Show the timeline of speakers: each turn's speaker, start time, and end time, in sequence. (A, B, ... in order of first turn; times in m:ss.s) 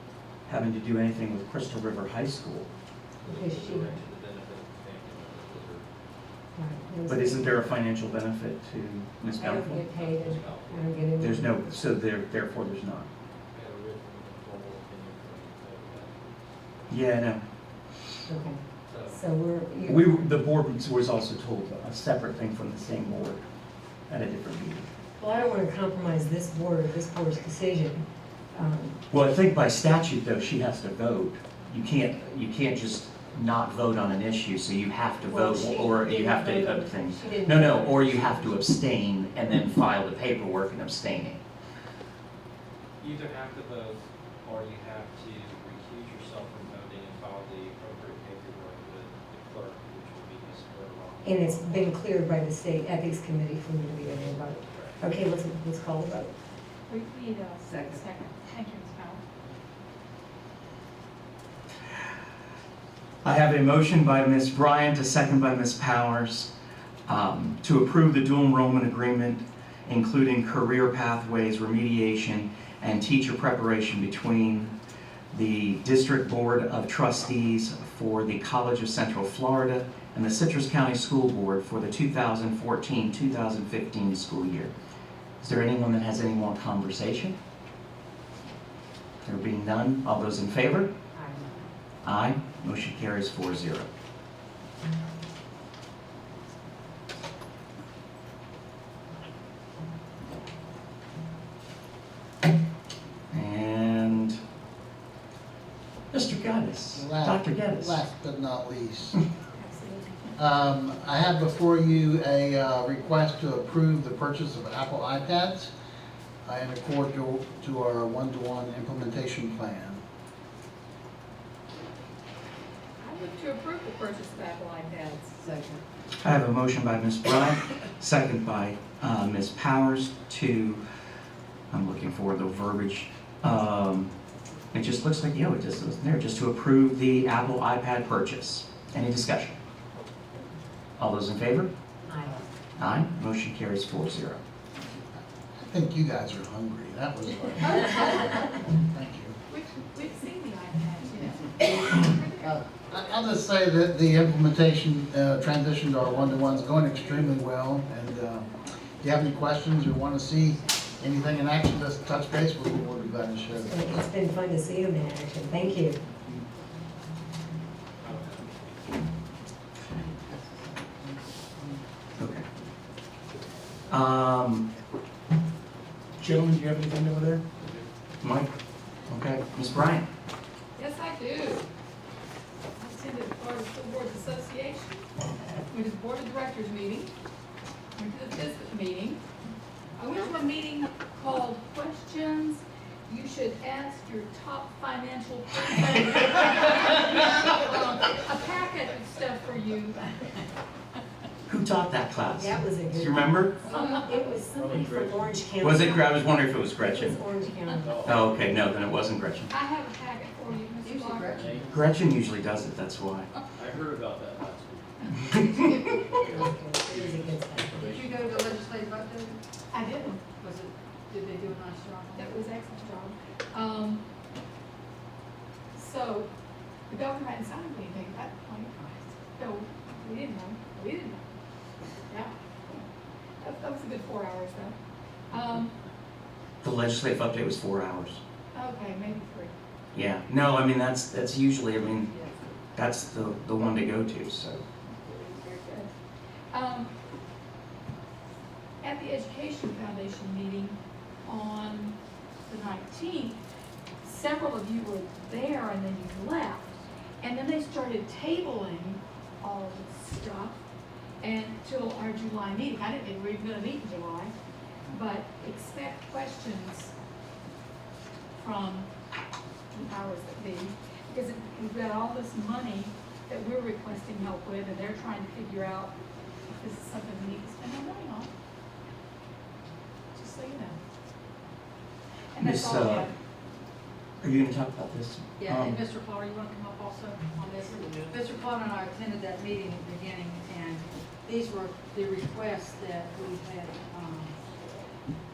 0:00.5-0:02.7 A
0:03.2-0:04.0 B
0:03.2-0:05.8 C
0:06.6-0:07.7 B
0:07.1-0:09.8 A
0:09.4-0:11.8 B
0:09.4-0:10.9 C
0:11.2-0:13.1 A
0:13.5-0:16.9 C
0:16.9-0:17.4 A
0:18.3-0:20.1 B
0:18.9-0:19.2 C
0:19.9-0:23.4 A
0:24.1-0:24.9 A
0:25.2-0:29.0 B
0:29.1-0:41.4 A
0:35.3-0:38.6 B
0:43.0-0:52.0 C
0:51.2-0:56.4 B
0:54.1-0:55.0 C
0:56.9-0:59.2 D
1:03.2-1:06.5 A
1:07.1-1:14.7 A
1:15.3-1:24.7 A
1:25.4-1:27.4 A
1:29.2-1:30.9 A
1:31.2-1:31.6 B
1:32.0-1:33.9 A
1:43.3-1:44.4 A
1:46.1-1:48.0 A
1:46.9-1:49.2 E
1:49.5-1:50.5 D
1:50.4-1:55.7 E
1:56.4-2:00.0 E
2:03.0-2:05.4 D
2:06.2-2:10.8 A
2:11.7-2:14.1 A
2:14.7-2:19.6 A
2:21.0-2:21.7 A
2:22.1-2:22.4 B
2:22.8-2:24.4 A
2:25.6-2:29.4 E
2:29.5-2:33.2 D
2:32.9-2:43.9 E
2:38.6-2:39.7 D
2:40.3-2:41.4 D
2:43.6-2:46.0 B
2:48.0-2:48.9 C
2:52.2-2:52.5 A
2:53.9-2:54.7 A
2:56.2-2:57.4 A
2:58.2-2:58.5 A
2:59.1-3:00.1 A
3:00.8-3:01.7 D
3:02.8-3:05.1 D
3:05.7-3:07.1 D
3:08.0-3:09.2 D
3:10.0-3:20.2 D
3:21.5-3:23.6 A
3:22.4-3:26.2 B
3:24.5-3:25.4 C
3:25.6-3:27.2 A
3:26.8-3:28.1 B
3:27.8-3:28.6 C
3:28.0-3:29.5 A
3:29.5-3:31.6 D
3:30.8-3:31.7 F
3:31.3-3:31.9 C
3:31.7-3:33.3 A
3:33.6-3:35.4 C
3:35.2-3:36.3 D
3:36.1-3:38.6 C
3:36.2-3:38.0 B
3:37.8-3:39.4 F
3:39.7-3:40.3 D
3:40.4-3:42.4 F
3:42.2-3:44.0 D
3:45.8-3:46.3 D
3:46.9-3:51.3 D
3:52.1-3:52.9 D
3:53.4-3:54.8 D
3:55.3-3:55.7 D
3:56.6-3:58.2 A
3:58.5-3:59.5 D
4:00.0-4:02.1 A
4:02.8-4:04.6 A
4:05.0-4:05.9 D
4:06.5-4:06.9 D
4:08.8-4:12.0 D
4:12.5-4:13.4 D
4:14.0-4:20.6 D
4:21.2-4:24.3 D
4:24.9-4:26.9 D
4:28.4-4:28.9 D
4:29.7-4:36.0 D
4:36.5-4:38.3 D
4:40.2-4:40.8 D
4:42.3-4:43.1 D
4:42.4-4:43.1 A
4:44.2-4:45.8 A
4:45.4-4:54.4 F